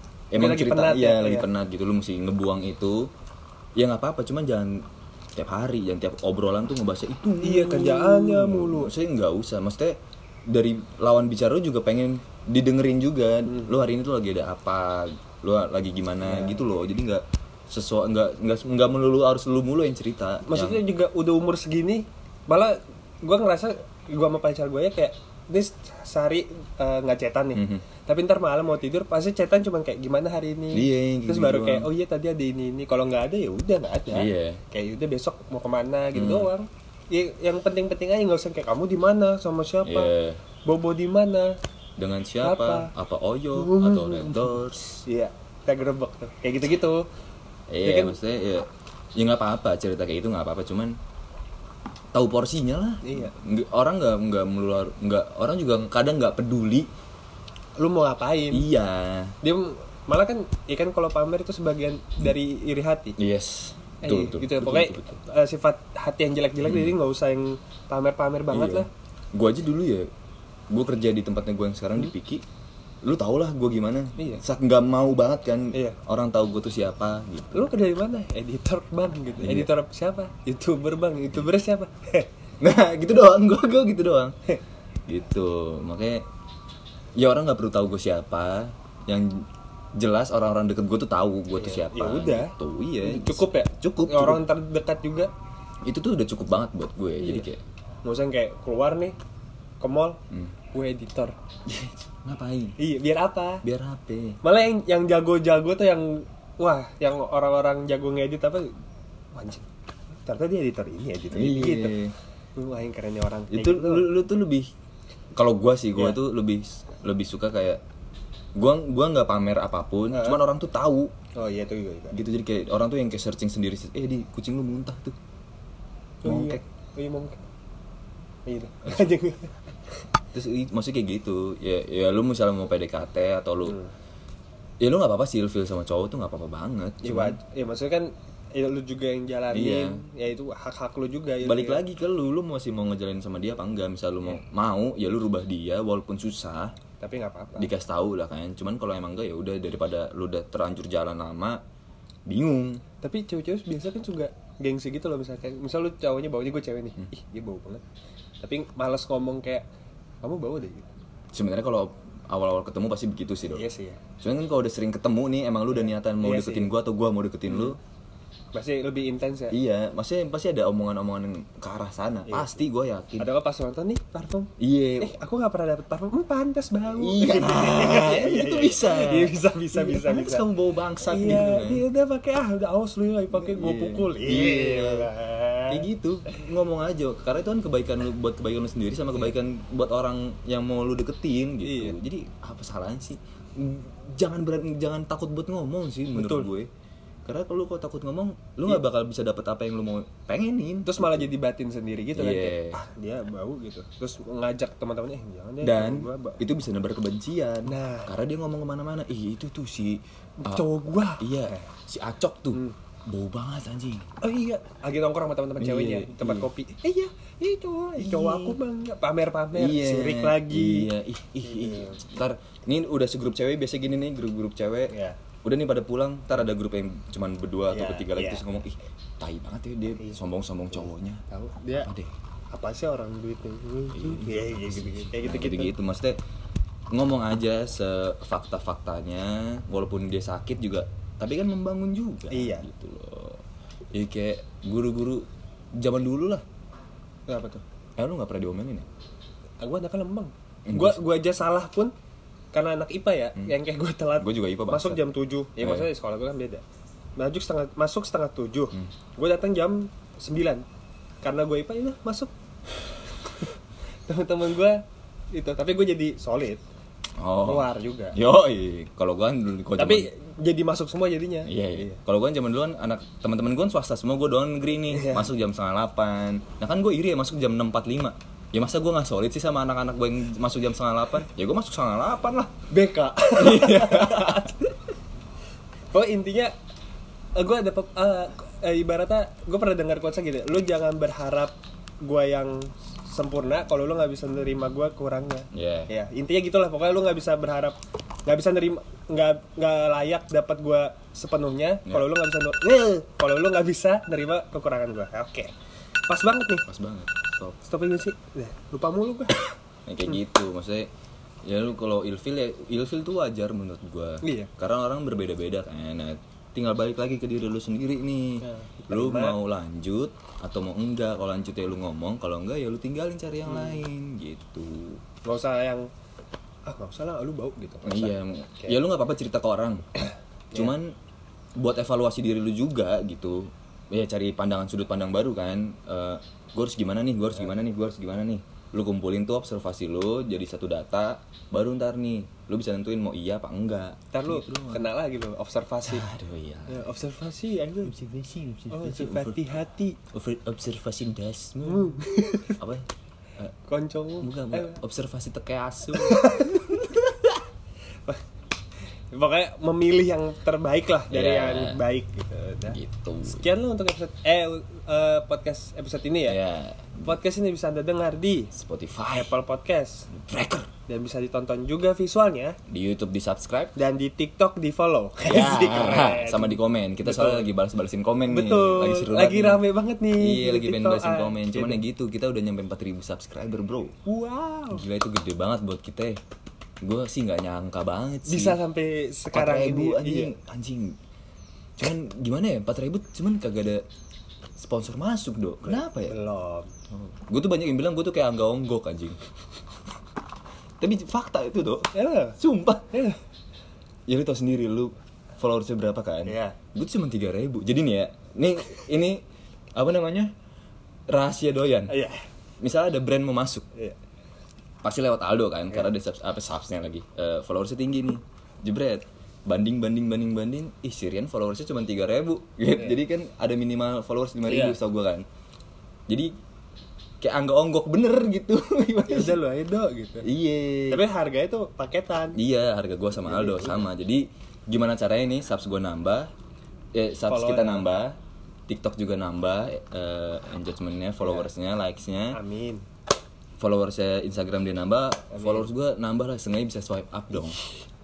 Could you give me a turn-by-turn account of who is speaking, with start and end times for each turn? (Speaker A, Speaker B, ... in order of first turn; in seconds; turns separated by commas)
Speaker A: 0.3-3.1, Speaker B: 0.3-1.5, Speaker A: 3.8-4.8, Speaker A: 5.4-10.0, Speaker B: 7.4-8.9, Speaker A: 10.5-20.8, Speaker B: 13.5-13.8, Speaker B: 16.2-16.6, Speaker B: 20.5-40.1, Speaker A: 27.6-27.8, Speaker A: 30.7-31.9, Speaker A: 34.1-34.6, Speaker A: 36.1-36.5, Speaker A: 39.8-40.4, Speaker B: 40.6-41.5, Speaker A: 42.0-45.0, Speaker B: 42.4-42.9, Speaker B: 43.5-47.0, Speaker A: 47.7-50.9, Speaker B: 47.8-48.2, Speaker A: 52.1-56.9, Speaker B: 53.0-53.3, Speaker B: 57.8-58.7, Speaker A: 58.5-59.4, Speaker B: 59.4-63.2, Speaker A: 63.2-65.2, Speaker B: 64.0-68.9, Speaker A: 66.6-67.0, Speaker A: 68.5-70.1, Speaker A: 70.7-72.4, Speaker A: 73.0-77.7, Speaker B: 74.2-74.4, Speaker B: 75.7-76.0, Speaker B: 77.5-82.3, Speaker A: 79.4-79.7, Speaker A: 82.6-84.3, Speaker A: 85.1-86.2, Speaker A: 87.2-89.5, Speaker A: 90.0-94.5, Speaker B: 91.6-95.3, Speaker A: 95.8-97.6, Speaker B: 97.2-97.5, Speaker B: 98.0-99.1, Speaker B: 99.8-100.2, Speaker B: 100.7-101.4, Speaker A: 101.7-102.8, Speaker B: 102.8-103.6, Speaker A: 103.6-104.4, Speaker B: 104.4-108.7, Speaker B: 109.3-109.7, Speaker B: 110.2-112.0, Speaker A: 111.3-112.2, Speaker B: 112.6-114.1, Speaker A: 113.5-114.7, Speaker A: 115.3-117.8, Speaker A: 118.6-121.1, Speaker B: 120.1-120.4, Speaker B: 121.4-122.2, Speaker A: 122.1-125.2, Speaker B: 126.2-127.4, Speaker A: 126.2-126.6, Speaker B: 128.5-129.6, Speaker A: 130.3-133.8, Speaker B: 133.7-133.9, Speaker A: 134.8-137.4, Speaker B: 137.0-141.8, Speaker A: 139.5-140.0, Speaker A: 141.4-146.7, Speaker B: 147.0-147.7, Speaker A: 147.6-151.6, Speaker A: 152.3-152.8, Speaker B: 153.0-157.8, Speaker B: 158.4-159.7, Speaker B: 160.2-160.9, Speaker A: 161.3-163.7, Speaker B: 163.6-164.0, Speaker A: 164.2-167.8, Speaker B: 165.7-166.7, Speaker B: 167.5-167.8, Speaker B: 168.5-169.6, Speaker A: 169.5-173.3, Speaker B: 172.3-172.6, Speaker B: 173.2-180.5, Speaker A: 174.6-175.2, Speaker A: 177.0-181.8, Speaker B: 181.0-185.8, Speaker A: 183.3-185.1, Speaker A: 185.7-196.7, Speaker B: 191.6-192.0, Speaker B: 196.1-196.5, Speaker A: 197.3-201.3, Speaker B: 200.8-206.4, Speaker A: 202.2-202.8, Speaker A: 205.6-210.6, Speaker B: 207.7-208.1, Speaker B: 210.4-211.7, Speaker A: 211.2-214.1, Speaker B: 214.2-220.9, Speaker A: 215.6-216.5, Speaker A: 218.0-218.6, Speaker A: 219.5-224.9, Speaker B: 221.4-222.0, Speaker B: 224.9-225.2, Speaker A: 225.4-231.2, Speaker B: 227.7-228.4, Speaker B: 230.7-231.9, Speaker A: 231.8-232.1, Speaker B: 232.5-235.7, Speaker A: 233.9-236.2, Speaker A: 236.9-243.4, Speaker B: 242.3-242.7, Speaker A: 243.9-245.3, Speaker A: 245.8-246.4, Speaker B: 247.3-247.6, Speaker A: 248.0-248.9, Speaker B: 249.6-251.9, Speaker A: 250.7-251.0, Speaker B: 252.5-256.6, Speaker A: 254.2-255.0, Speaker A: 255.6-255.9, Speaker B: 257.2-260.6, Speaker B: 261.2-262.3, Speaker B: 263.2-263.5, Speaker B: 264.1-266.6, Speaker A: 267.2-270.1, Speaker B: 267.4-268.2, Speaker B: 269.8-271.9, Speaker A: 271.5-282.5, Speaker B: 274.8-275.3, Speaker B: 282.7-284.8, Speaker A: 283.4-284.5, Speaker B: 285.9-286.5, Speaker B: 287.4-305.5, Speaker A: 295.5-295.9, Speaker B: 306.1-306.7, Speaker A: 306.7-307.6, Speaker B: 307.6-309.5, Speaker A: 309.9-310.9, Speaker A: 311.4-325.0, Speaker B: 314.2-314.5, Speaker B: 318.4-319.4, Speaker B: 323.5-323.9, Speaker B: 325.3-325.9, Speaker B: 326.7-328.8, Speaker A: 327.9-329.9, Speaker A: 330.5-330.9, Speaker A: 331.6-344.9, Speaker B: 344.1-346.1, Speaker A: 345.9-346.9, Speaker B: 346.7-347.9, Speaker A: 347.8-349.4, Speaker B: 348.7-350.0, Speaker A: 350.1-352.9, Speaker B: 351.6-352.6, Speaker B: 353.7-354.8, Speaker A: 354.2-357.1, Speaker B: 356.0-356.8, Speaker B: 359.1-366.4, Speaker A: 361.1-361.8, Speaker A: 362.7-363.4, Speaker A: 366.2-367.2, Speaker B: 367.0-368.5, Speaker A: 368.5-369.4, Speaker B: 369.1-370.1, Speaker A: 370.1-370.7, Speaker B: 370.9-372.6, Speaker A: 372.7-373.8, Speaker B: 373.8-377.5, Speaker A: 375.2-383.9, Speaker B: 378.3-381.8, Speaker B: 384.1-384.8, Speaker A: 384.7-386.2, Speaker A: 386.8-388.6, Speaker B: 388.3-390.3, Speaker A: 389.3-390.9, Speaker A: 391.8-393.8, Speaker A: 394.6-396.1, Speaker B: 395.6-396.7, Speaker A: 396.9-399.2, Speaker A: 400.8-402.9, Speaker B: 401.9-402.4, Speaker B: 402.9-403.2, Speaker A: 404.1-409.2, Speaker B: 406.3-406.6, Speaker A: 409.8-410.3, Speaker A: 411.1-411.9, Speaker B: 411.9-412.2, Speaker A: 412.6-413.7, Speaker A: 414.8-425.3, Speaker B: 424.5-424.8, Speaker A: 427.2-429.4, Speaker B: 429.1-430.3, Speaker A: 430.2-431.0, Speaker B: 430.9-432.4, Speaker A: 432.4-436.3, Speaker B: 433.2-433.9, Speaker A: 436.9-438.2, Speaker B: 437.3-437.9, Speaker A: 438.7-442.4, Speaker B: 441.2-441.5, Speaker B: 442.3-442.8, Speaker A: 443.6-447.6, Speaker B: 445.3-445.7